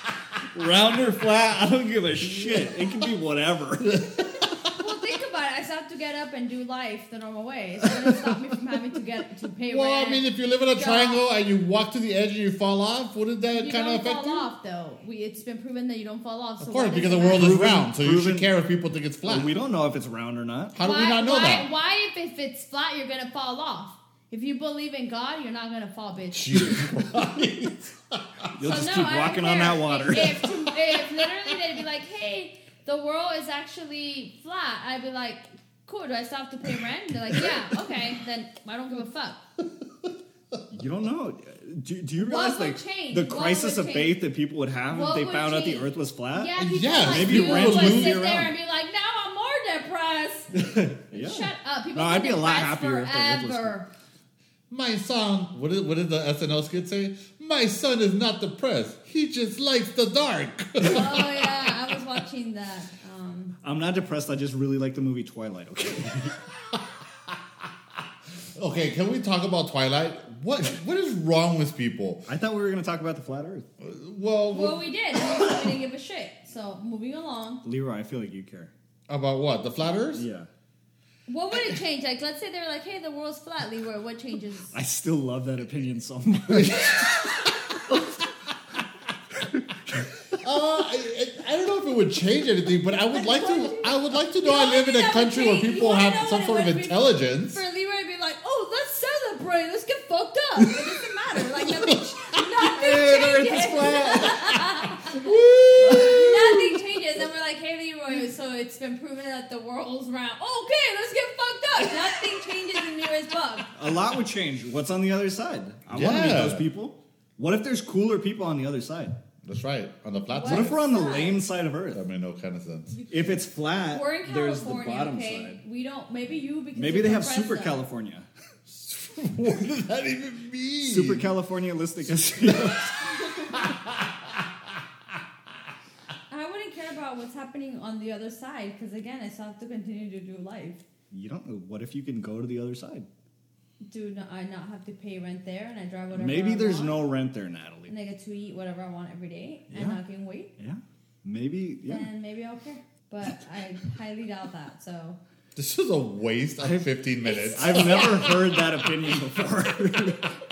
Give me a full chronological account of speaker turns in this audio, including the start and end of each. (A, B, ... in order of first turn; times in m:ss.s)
0:00.5-0:04.1 A
0:02.4-0:02.7 B
0:03.8-0:04.6 B
0:04.6-0:11.2 C
0:09.7-0:14.5 B
0:13.5-0:17.5 C
0:16.6-0:19.5 B
0:17.3-0:18.5 A
0:19.2-0:20.8 A
0:20.7-0:21.7 B
0:20.8-0:26.9 C
0:26.3-0:28.5 B
0:28.5-0:30.5 A
0:28.6-0:39.4 C
0:37.3-0:37.6 B
0:40.7-0:46.5 A
0:42.2-0:44.2 C
0:44.9-0:50.5 C
0:46.6-0:48.2 B
0:47.0-0:48.5 A
0:50.5-0:53.8 A
0:51.1-0:53.9 C
0:54.7-1:01.7 B
1:00.8-1:03.6 C
1:03.6-1:06.4 A
1:08.6-1:12.2 B
1:12.3-1:13.7 A
1:13.8-1:15.6 B
1:14.5-1:17.6 C
1:17.6-1:18.7 A
1:19.1-1:20.2 B
1:20.1-1:20.5 A
1:21.3-1:24.7 C
1:24.7-1:27.1 A
1:26.5-1:28.0 B
1:29.5-1:30.1 A
1:30.3-1:37.6 B
1:33.1-1:45.2 C
1:41.6-1:46.8 B
1:42.6-1:44.6 A
1:45.8-1:46.2 A
1:45.9-1:53.7 C
1:53.7-1:59.1 A
1:55.9-1:56.6 B
1:59.4-2:00.8 B
2:00.3-2:01.4 C
2:00.4-2:02.0 A
2:01.9-2:03.0 B
2:03.0-2:07.8 C
2:03.1-2:05.6 A
2:06.7-2:08.3 A
2:08.7-2:11.3 B
2:10.8-2:12.9 A
2:12.2-2:14.5 B
2:16.3-2:20.8 C
2:21.1-2:23.1 A
2:23.8-2:27.1 C
2:26.1-2:27.9 A
2:27.9-2:30.5 C
2:29.7-2:30.0 A
2:30.6-2:32.1 A
2:31.8-2:35.2 C
2:35.6-2:38.8 B
2:36.6-2:40.3 A
2:37.2-2:38.3 C